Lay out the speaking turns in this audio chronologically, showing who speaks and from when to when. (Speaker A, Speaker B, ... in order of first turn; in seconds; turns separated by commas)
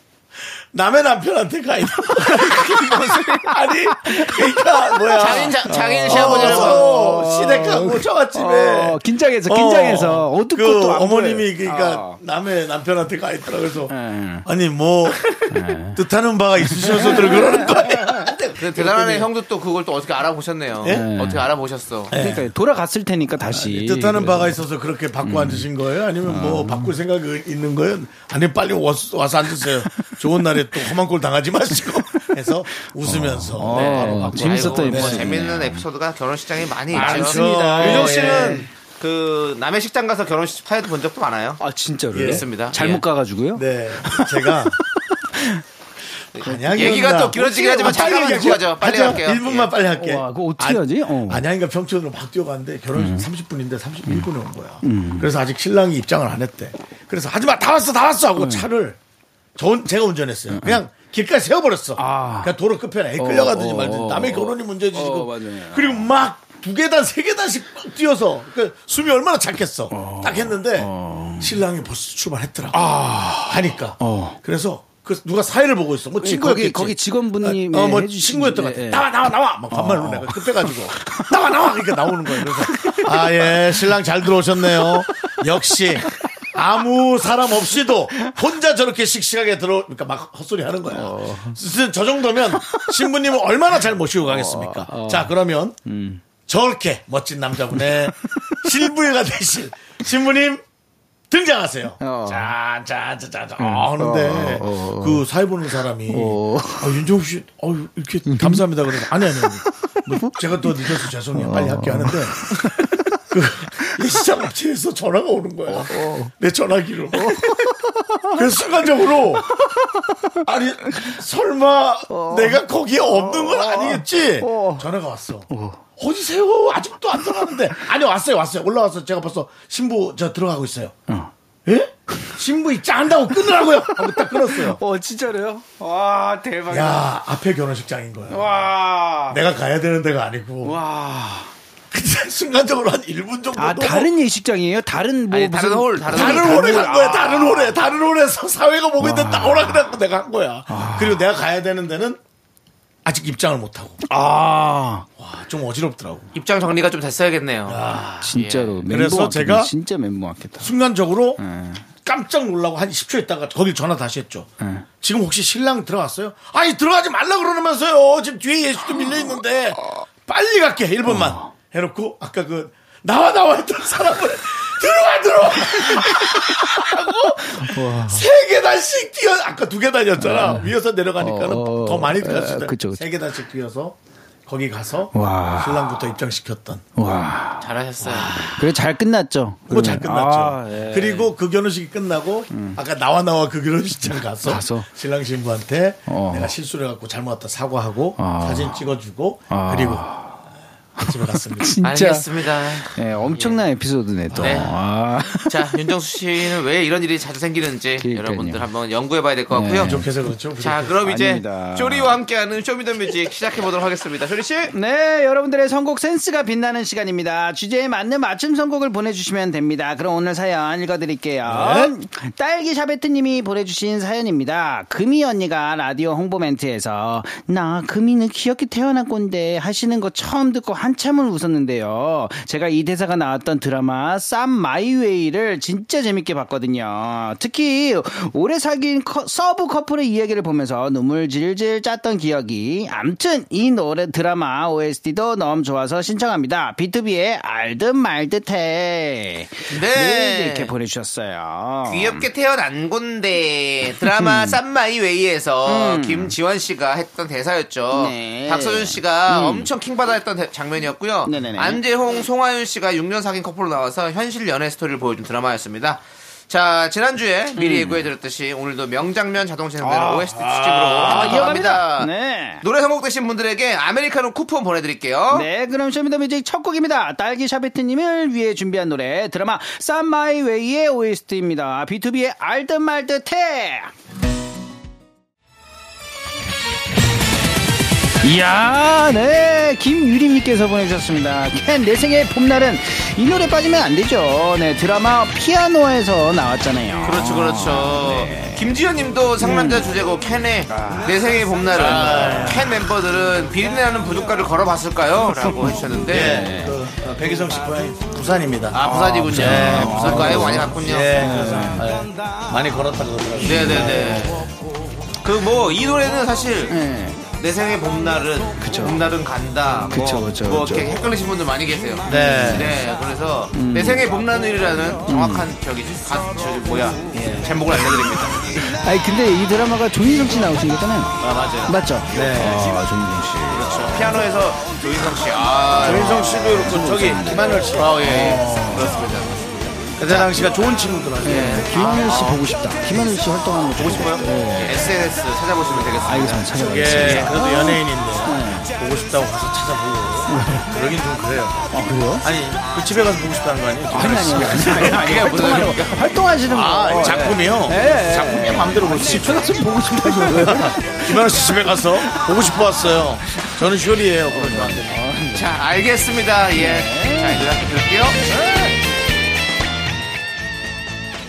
Speaker A: 0.4-13.9, Speaker B: 2.2-3.5, Speaker C: 4.0-4.5, Speaker B: 5.1-6.9, Speaker C: 5.6-12.2, Speaker C: 13.9-14.4, Speaker A: 14.4-15.3, Speaker C: 15.5-16.0, Speaker A: 15.9-19.3, Speaker C: 16.6-18.4, Speaker B: 18.4-22.1, Speaker C: 20.9-21.5, Speaker A: 22.1-22.5, Speaker C: 22.1-24.6, Speaker A: 23.5-35.4, Speaker C: 25.2-25.7, Speaker C: 26.2-26.9, Speaker C: 33.0-35.9, Speaker B: 33.7-41.6, Speaker A: 36.9-38.7, Speaker C: 36.9-38.6, Speaker C: 41.6-45.6, Speaker A: 42.1-42.4, Speaker B: 42.2-43.0, Speaker A: 43.5-44.8, Speaker B: 46.4-49.7, Speaker A: 46.4-59.0, Speaker C: 48.0-48.4, Speaker C: 50.0-51.4, Speaker C: 53.0-53.3, Speaker C: 54.8-55.3, Speaker C: 58.4-58.6, Speaker A: 59.6-72.8, Speaker C: 60.5-60.8, Speaker C: 62.0-62.5, Speaker C: 63.2-66.1, Speaker C: 69.9-71.6, Speaker C: 72.7-74.4, Speaker A: 73.4-95.8, Speaker C: 76.2-79.1, Speaker C: 79.7-83.8, Speaker C: 84.8-85.3, Speaker C: 90.9-91.6, Speaker C: 94.3-95.3, Speaker C: 95.9-96.2, Speaker A: 96.5-100.6, Speaker C: 98.2-98.6, Speaker A: 101.3-112.4, Speaker C: 102.0-102.5, Speaker C: 103.6-105.2, Speaker C: 106.1-107.0, Speaker C: 108.3-113.2, Speaker A: 113.3-117.7, Speaker C: 115.7-116.3, Speaker C: 117.2-118.4, Speaker A: 118.3-119.6, Speaker C: 119.5-120.4, Speaker A: 120.4-130.9, Speaker C: 122.1-124.9, Speaker C: 125.5-125.8, Speaker C: 127.3-127.6, Speaker A: 131.7-134.8, Speaker C: 133.9-137.1, Speaker A: 136.7-138.6, Speaker C: 138.3-139.4, Speaker A: 139.3-140.8, Speaker C: 140.6-141.5, Speaker A: 141.9-144.1, Speaker C: 143.6-147.7, Speaker B: 145.3-147.1, Speaker A: 146.1-152.2, Speaker C: 149.0-149.8, Speaker C: 150.7-151.2, Speaker A: 153.1-154.0, Speaker C: 154.1-155.1, Speaker A: 155.2-156.3, Speaker B: 156.3-157.8, Speaker A: 157.7-159.7, Speaker C: 158.2-160.7, Speaker B: 158.3-158.8, Speaker A: 160.6-161.4, Speaker C: 161.4-161.8, Speaker A: 162.0-164.5, Speaker C: 164.6-164.9, Speaker A: 165.0-184.0, Speaker C: 171.1-171.5, Speaker C: 175.7-178.3, Speaker C: 180.2-183.0, Speaker A: 184.5-186.9, Speaker C: 185.1-186.0, Speaker C: 187.0-187.7, Speaker B: 187.6-188.4, Speaker A: 188.1-188.7, Speaker C: 188.2-191.3, Speaker A: 189.7-200.1, Speaker C: 192.5-192.8, Speaker C: 194.4-194.9, Speaker C: 196.1-196.5, Speaker C: 198.2-198.8, Speaker C: 199.5-200.4, Speaker A: 201.0-201.8, Speaker C: 201.0-205.9, Speaker B: 201.8-203.6, Speaker A: 204.3-204.7, Speaker B: 204.4-204.7, Speaker B: 205.4-210.0, Speaker C: 208.0-208.7, Speaker C: 209.5-210.1, Speaker A: 209.8-211.0, Speaker B: 210.6-214.7, Speaker C: 211.0-212.2, Speaker C: 214.7-252.3, Speaker A: 221.4-221.9, Speaker B: 249.7-250.7, Speaker B: 251.9-275.5, Speaker C: 254.0-254.6, Speaker C: 255.7-256.3, Speaker C: 257.9-259.7, Speaker C: 261.3-261.8, Speaker C: 267.6-268.1, Speaker C: 269.8-272.6, Speaker A: 271.0-271.5, Speaker C: 275.3-283.9, Speaker C: 288.2-298.7, Speaker B: 297.0-306.5, Speaker C: 299.4-299.9, Speaker C: 300.7-302.7, Speaker A: 301.7-302.8, Speaker C: 305.5-306.8, Speaker A: 306.1-314.2, Speaker B: 308.7-311.3, Speaker C: 308.8-311.9, Speaker B: 313.4-314.5, Speaker C: 313.5-314.3, Speaker B: 315.2-328.7, Speaker C: 316.7-317.2, Speaker C: 318.6-319.0, Speaker C: 319.9-321.0, Speaker A: 322.1-322.7, Speaker C: 322.1-322.8, Speaker C: 323.5-324.1, Speaker C: 325.1-325.5, Speaker C: 327.1-327.5, Speaker C: 328.6-334.3, Speaker B: 331.2-331.8, Speaker A: 332.1-332.7, Speaker B: 333.5-340.3, Speaker A: 335.8-339.0, Speaker C: 335.9-337.7, Speaker A: 340.0-342.0, Speaker B: 341.2-342.4, Speaker C: 341.2-345.0, Speaker B: 343.8-347.4, Speaker C: 345.9-348.7, Speaker A: 346.6-351.7, Speaker C: 350.3-350.7, Speaker C: 351.7-352.3, Speaker A: 352.2-355.3, Speaker C: 353.9-362.7, Speaker B: 354.6-356.1, Speaker A: 356.5-365.0, Speaker B: 356.6-357.3, Speaker C: 364.3-365.5, Speaker B: 365.3-368.2, Speaker C: 366.5-367.5, Speaker C: 368.4-368.7